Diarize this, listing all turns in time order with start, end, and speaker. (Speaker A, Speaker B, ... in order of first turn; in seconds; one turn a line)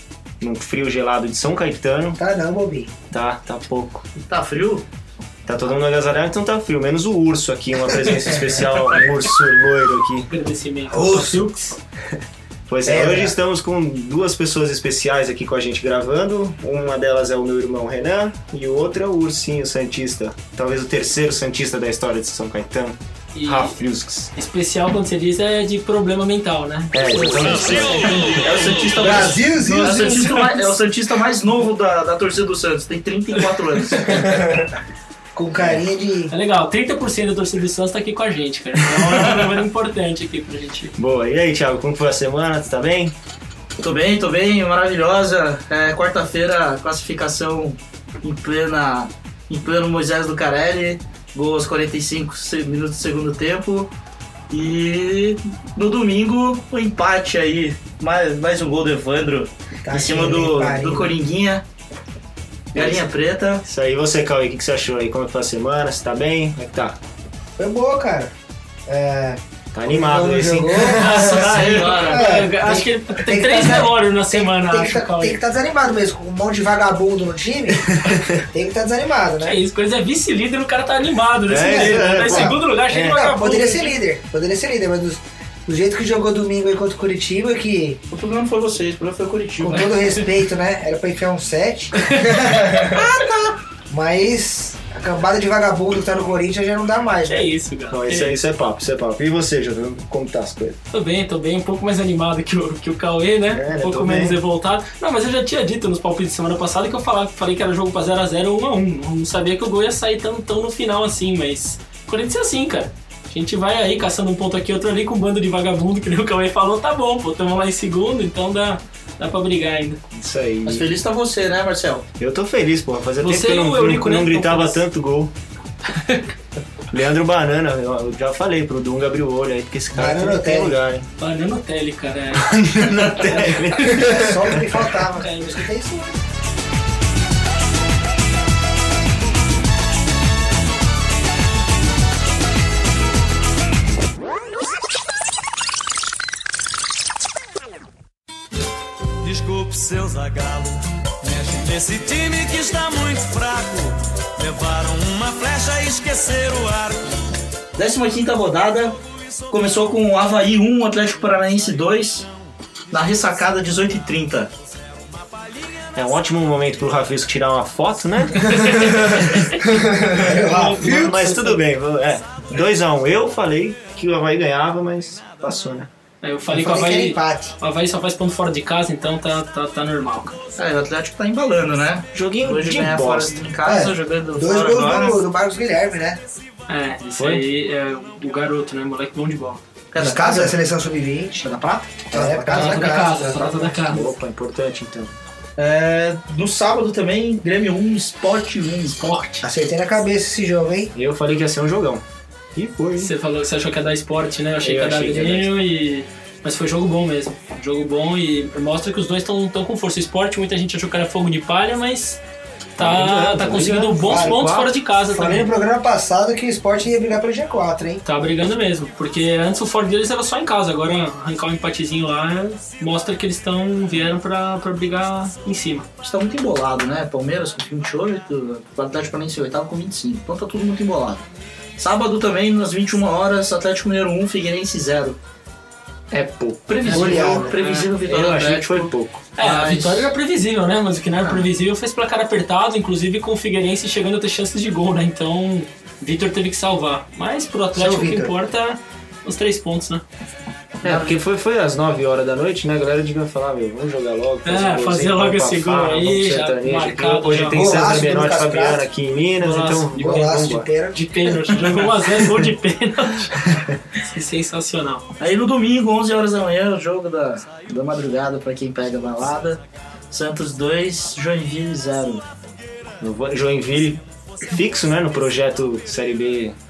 Speaker A: 0.4-2.2
Speaker B: 2.2-2.9
Speaker A: 3.1-4.1
Speaker C: 4.3-4.9
Speaker A: 5.5-10.3
Speaker D: 10.3-11.7
Speaker B: 10.9-11.7
Speaker A: 12.7-24.3
Speaker B: 12.9-13.3
Speaker D: 23.4-23.8
Speaker D: 24.4-28.4
Speaker A: 26.9-28.4
Speaker C: 28.2-34.4
Speaker B: 28.9-30.5
Speaker D: 30.1-30.3
Speaker B: 34.1-34.8
Speaker B: 35.4-36.3
Speaker A: 35.6-35.8
Speaker D: 36.3-40.9
Speaker A: 38.9-39.2
Speaker C: 39.2-39.5
Speaker A: 41.0-43.1
Speaker C: 43.8-53.9
Speaker C: 54.5-61.6
Speaker B: 59.9-61.1
Speaker C: 62.7-63.6
Speaker A: 62.8-63.0
Speaker A: 63.7-67.0
Speaker B: 67.6-68.3
Speaker B: 68.9-79.6
Speaker A: 69.7-72.1
Speaker D: 71.0-75.4
Speaker C: 71.1-72.3
Speaker A: 77.8-78.4
Speaker D: 79.4-83.9
Speaker A: 81.5-83.2
Speaker B: 81.6-88.0
Speaker C: 88.1-90.0
Speaker B: 89.6-93.2
Speaker D: 92.0-92.3
Speaker B: 93.9-97.5
Speaker D: 97.2-98.4
Speaker A: 97.9-100.8
Speaker D: 100.9-120.0
Speaker A: 103.5-104.4
Speaker A: 120.1-121.0
Speaker C: 120.7-122.1
Speaker A: 122.2-125.3
Speaker D: 123.2-124.8
Speaker D: 125.9-126.3
Speaker A: 126.9-131.1
Speaker B: 129.9-130.8
Speaker D: 131.2-134.2
Speaker A: 132.3-134.8
Speaker B: 133.9-136.2
Speaker D: 135.2-135.6
Speaker E: 149.2-157.2
Speaker C: 157.8-159.0
Speaker C: 159.5-162.3
Speaker C: 162.9-164.5
Speaker A: 165.9-168.6
Speaker D: 168.4-169.6
Speaker B: 168.5-171.6
Speaker A: 170.2-175.9
Speaker D: 176.2-180.4
Speaker B: 176.5-177.6
Speaker C: 180.6-185.2
Speaker A: 182.1-183.4
Speaker B: 183.7-186.2
Speaker D: 186.7-189.6
Speaker A: 187.2-187.4
Speaker C: 189.9-190.6
Speaker B: 190.0-191.4
Speaker C: 191.4-192.0
Speaker A: 192.1-193.0
Speaker B: 192.1-193.8
Speaker D: 192.4-194.1
Speaker A: 193.9-195.2
Speaker C: 195.6-199.0
Speaker D: 199.0-199.4
Speaker B: 199.4-200.9
Speaker A: 200.9-202.0
Speaker A: 202.6-203.1
Speaker D: 203.0-212.2
Speaker A: 204.6-205.5
Speaker D: 212.8-215.5
Speaker A: 212.8-214.5
Speaker B: 214.0-218.0
Speaker D: 218.0-225.9
Speaker C: 226.0-231.3
Speaker C: 231.8-235.2
Speaker A: 236.1-239.2
Speaker C: 236.7-240.1
Speaker B: 236.9-237.6
Speaker D: 239.4-250.0
Speaker C: 241.2-241.5
Speaker B: 247.8-248.3
Speaker A: 250.8-260.7
Speaker C: 250.8-251.1
Speaker D: 254.4-257.6
Speaker B: 257.5-258.9
Speaker D: 259.4-260.3
Speaker B: 259.9-261.6
Speaker D: 260.9-265.1
Speaker C: 265.2-272.2
Speaker A: 273.0-276.6